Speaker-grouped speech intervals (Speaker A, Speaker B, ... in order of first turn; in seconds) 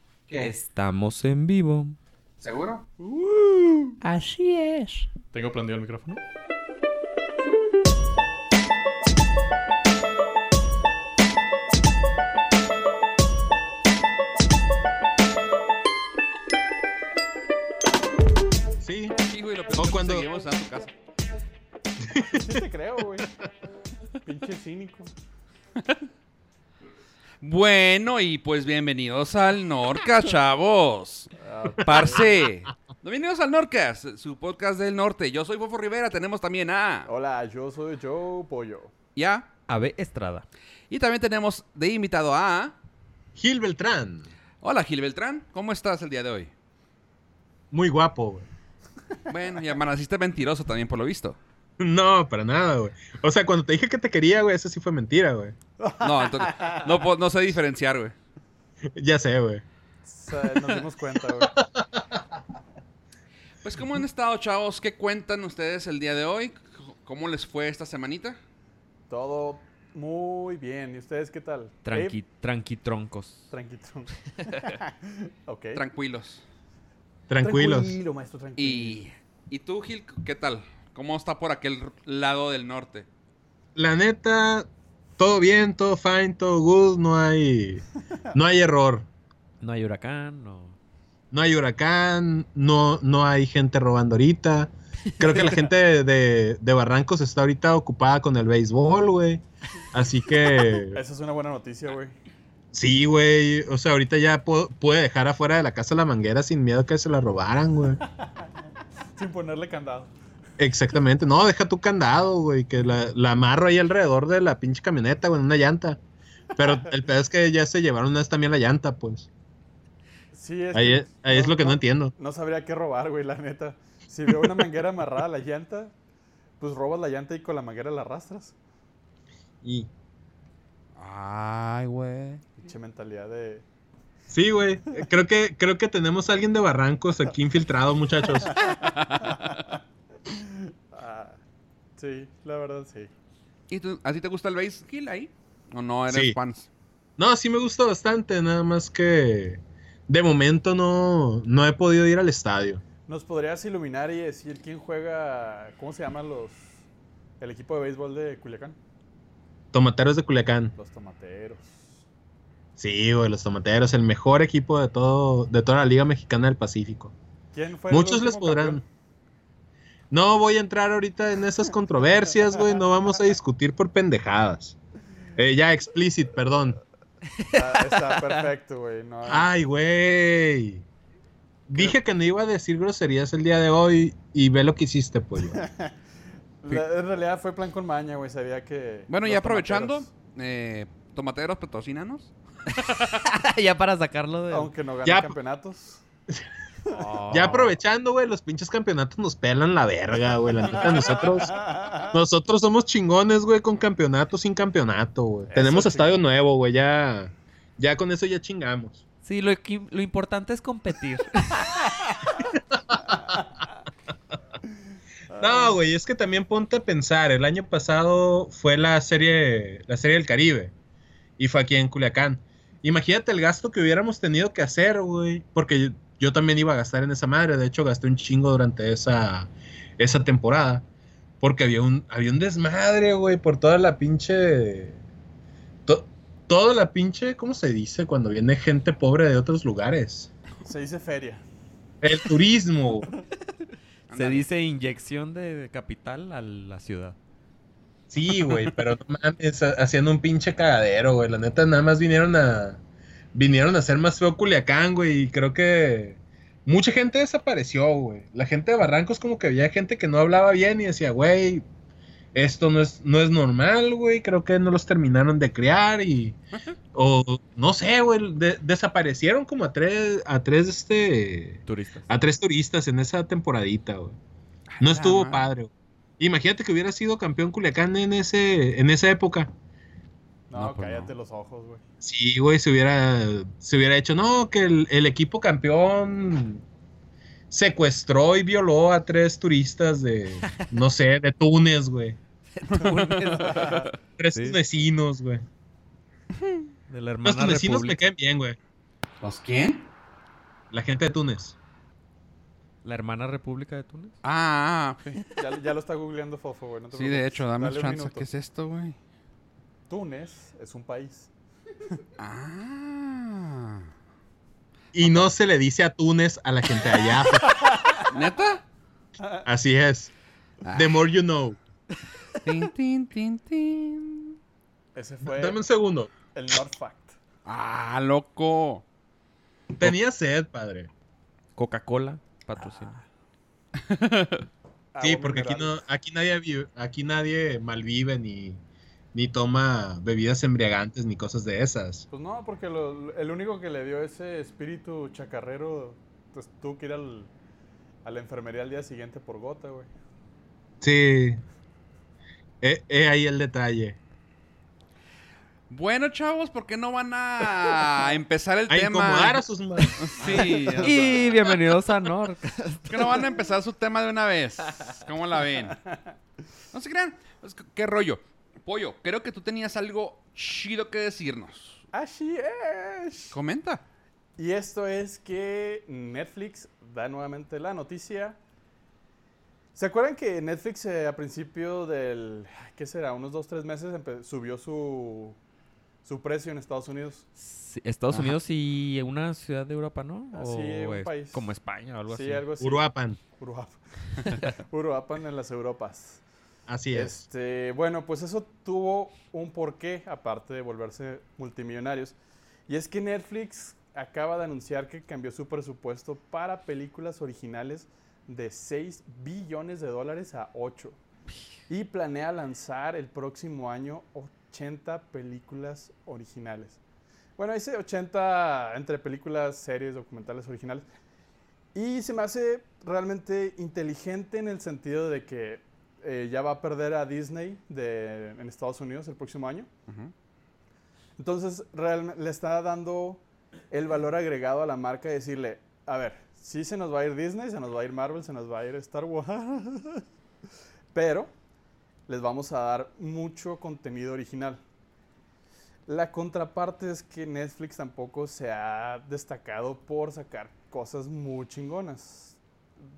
Speaker A: 0.4-2.0, 4.0-5.1, 39.7-40.5, 71.8-73.5, 89.6-90.8, 95.1-95.4, 177.3-178.4, 193.1-194.7, 209.2-211.9, 244.1-247.2, 271.7-272.1, 280.5-281.1, 290.4-290.7, 292.5-294.6, 296.9-298.0, 302.8-304.1, 331.6-332.9, 360.3-363.3, 387.4-392.4
Speaker B: 2.4-2.8, 19.3-20.9, 27.4-37.1, 39.2-39.5, 40.9-42.8, 44.6-46.5, 49.3-51.4, 56.0-58.1, 63.6-68.4, 75.7-76.4, 78.6-83.1, 131.0-132.5, 138.6-139.6, 143.7-146.7, 189.1-193.2, 244.1-244.4, 248.4-248.7, 274.8-275.5, 292.8-293.9, 296.4-296.7, 299.2-299.8, 304.2-305.2, 306.9-308.9, 312.2-313.9, 318.0-318.6, 320.6-320.9, 322.4-324.4, 327.4-328.8, 333.8-334.5, 355.7-359.4, 360.0-361.5, 362.9-365.8, 366.7-371.8, 373.3-373.8, 429.9-430.1
Speaker C: 3.0-3.9, 5.3-6.2, 22.3-23.3, 24.2-25.1, 31.4-32.3, 37.1-38.9, 55.8-57.0, 60.1-61.5, 69.1-72.2, 73.5-75.8, 77.4-79.1, 100.7-102.2, 109.2-110.1, 120.3-125.9, 126.6-128.6, 132.6-133.6, 138.4-139.7, 140.3-141.4, 142.0-143.1, 153.1-156.8, 157.4-158.8, 160.8-162.0, 167.5-168.8, 177.5-179.5, 185.5-185.9, 186.6-190.1, 194.5-196.0, 196.8-197.7, 200.9-202.2, 205.5-206.2, 215.3-215.8, 240.6-241.4, 280.5-281.8, 293.4-293.9, 305.4-308.3, 309.9-311.3, 317.5-318.0, 324.9-325.6, 326.3-327.2, 334.9-335.8, 342.1-347.3, 348.0-349.9, 360.2-360.9, 371.9-373.4, 374.4-378.4, 379.8-385.4, 386.0-387.3, 390.3-391.4, 392.1-392.8, 393.4-396.2, 396.9-402.2, 402.7-411.0, 411.7-416.8, 417.4-420.9, 421.7-429.7, 431.2-440.0, 440.9-441.3, 442.1-444.6, 445.9-452.4
Speaker D: 18.8-19.2, 19.7-20.3, 22.0-22.6, 43.4-44.3, 47.7-48.5, 51.8-55.5, 59.0-59.6, 61.2-62.2, 77.3-78.0, 83.8-89.1, 91.3-101.0, 102.7-108.0, 110.6-116.0, 116.6-119.3, 120.7-122.1, 129.6-129.9, 134.3-138.5, 146.1-146.4, 147.2-152.8, 159.7-160.8, 162.8-167.1, 167.9-168.8, 170.1-174.8, 175.4-176.8, 179.3-180.8, 181.7-185.6, 195.0-195.4, 197.3-209.0, 215.3-220.7, 221.4-230.8, 231.4-235.0, 235.9-240.3, 242.0-243.1, 248.1-252.8, 253.3-261.6, 262.3-266.4, 266.9-274.1, 274.8-279.5, 282.0-286.6, 287.5-292.2, 294.2-295.4, 297.2-298.6, 300.7-301.6, 314.9-317.6, 319.4-320.1, 320.7-321.6, 325.2-326.1, 329.7-330.9, 335.0-338.6, 339.1-342.1, 350.8-351.4, 352.6-354.0, 358.7-360.4, 392.6-393.2, 396.7-397.2